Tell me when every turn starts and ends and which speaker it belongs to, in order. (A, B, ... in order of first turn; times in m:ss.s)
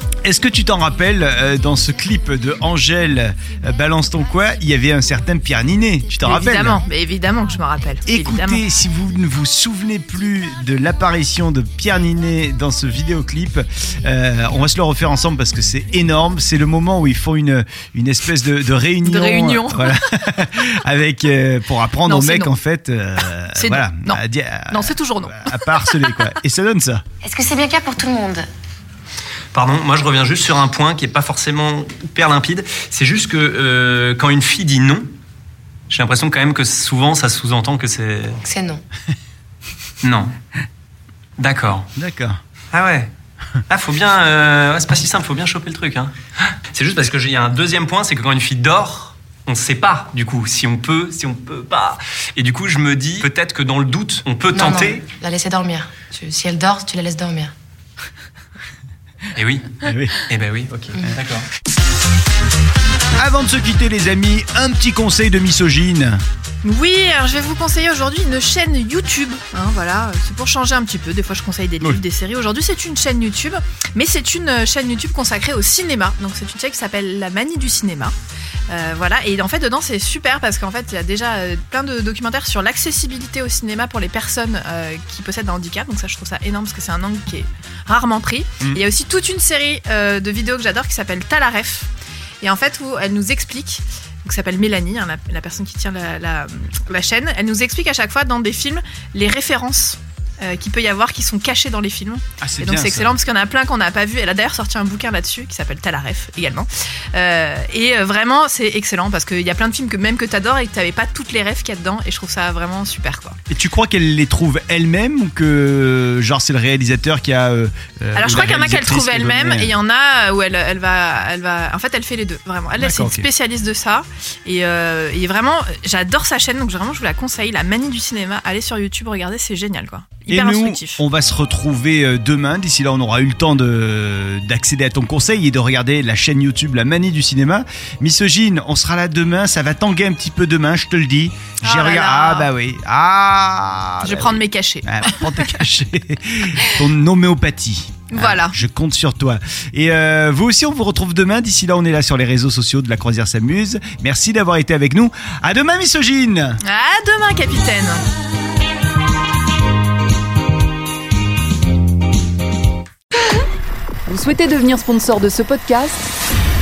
0:00.2-0:06.8 A
0:06.2-0:08.6 B
0:08.1-0:27.0 A
0:19.0-0:20.0 B
0:22.0-0:22.5 B
0:23.5-0:26.3 B
0:27.2-0:28.5 C
0:29.5-0:35.1 D
0:35.9-0:38.4 D
0:38.4-0:38.8 C
0:40.0-0:40.3 D
0:41.4-0:41.9 D
0:41.9-0:42.4 A
0:42.7-0:43.1 D
0:43.7-0:46.1 D
0:46.7-0:55.0 D
0:54.5-0:57.5 C
0:59.3-1:01.4 D
0:59.8-1:00.1 A
1:03.2-1:06.2 A
1:06.6-1:18.1 B
1:18.7-1:31.9 B
1:32.4-1:53.4 B
1:42.4-1:43.1 A
1:53.5-1:59.7 A
1:58.1-2:11.0 B
2:02.8-2:03.3 A
2:10.3-2:36.6 A
2:21.6-2:22.5 B
2:24.0-2:25.6 B
2:28.1-2:28.5 B
2:36.6-2:38.0 B
2:44.1-2:46.1 E